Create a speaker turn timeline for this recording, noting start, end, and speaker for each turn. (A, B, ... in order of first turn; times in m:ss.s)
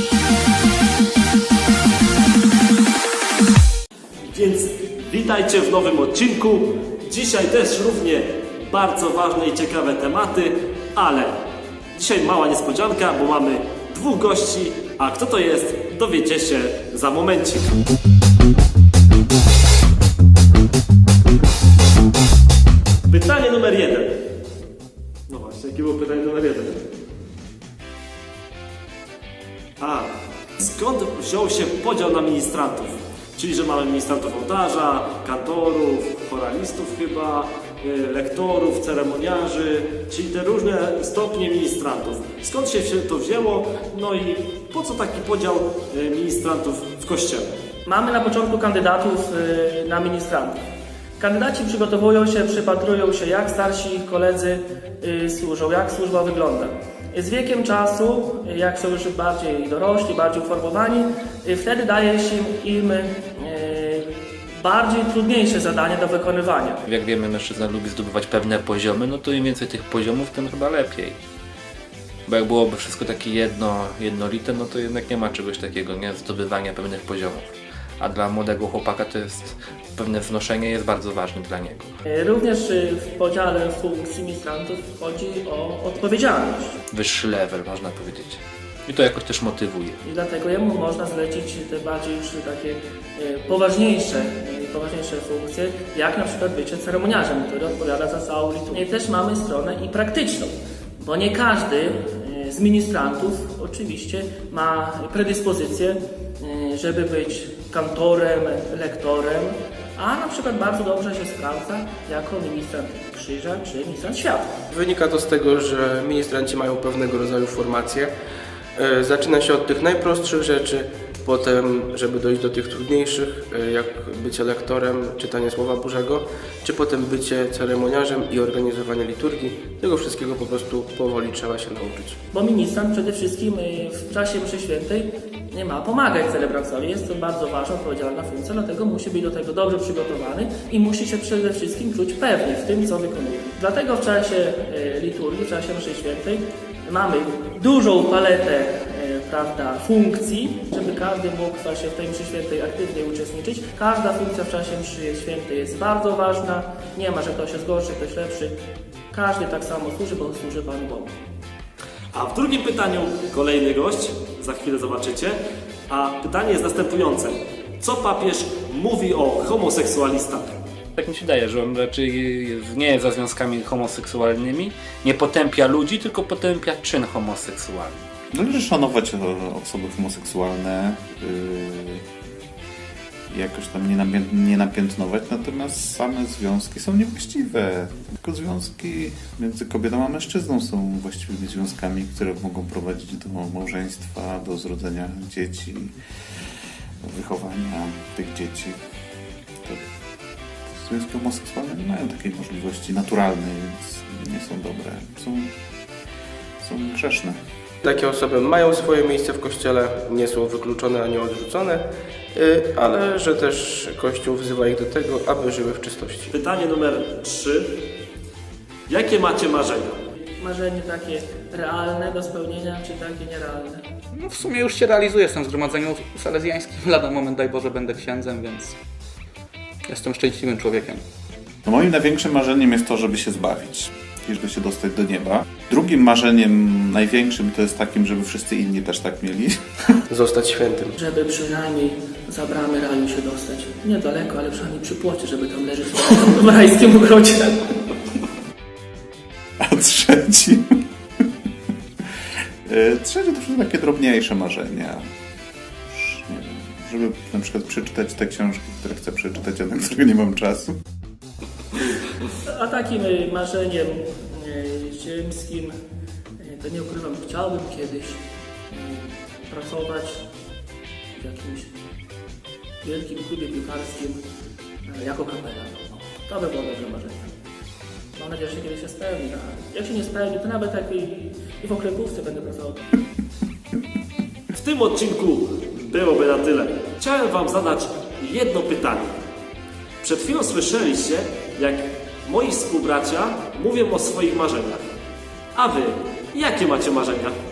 0:04.3-0:11.4 A
0:11.9-0:17.7 A
0:23.1-0:24.2 A
0:25.3-0:26.8 A
0:29.8-0:47.5 A
0:47.8-0:50.6 B
0:51.2-1:06.8 B
1:06.8-1:11.2 C
1:12.3-1:21.9 C
1:22.0-1:26.8 B
1:26.9-1:30.0 C
1:30.0-1:54.5 B
1:54.7-1:58.1 D
1:58.8-2:12.2 D
2:12.3-2:38.5 B
2:39.1-2:41.1 B
2:42.1-2:45.4 A
2:45.9-2:50.6 A
2:51.0-2:58.0 C
2:58.3-3:02.0 E
3:03.3-3:15.9 E
3:17.0-3:18.8 E
3:20.7-3:25.5 E
3:26.6-3:27.4 E
3:27.8-3:36.3 D
3:36.3-3:37.7 A
3:38.9-3:40.0 A
3:40.4-3:43.8 B
3:44.1-3:48.8 F
3:49.9-3:51.0 F
3:51.6-3:59.6 E
4:00.1-4:00.9 D
4:01.0-4:07.7 B
4:09.6-4:10.8 E
4:12.6-4:15.1 E
4:15.9-4:20.8 E
4:22.4-4:25.7 B
4:26.4-4:30.3 B
4:31.1-4:31.7 B
4:32.8-4:34.2 B
4:34.8-4:37.3 B
4:38.1-4:42.8 B
4:44.5-4:49.2 A
4:50.0-4:54.9 A
4:55.5-4:57.4 A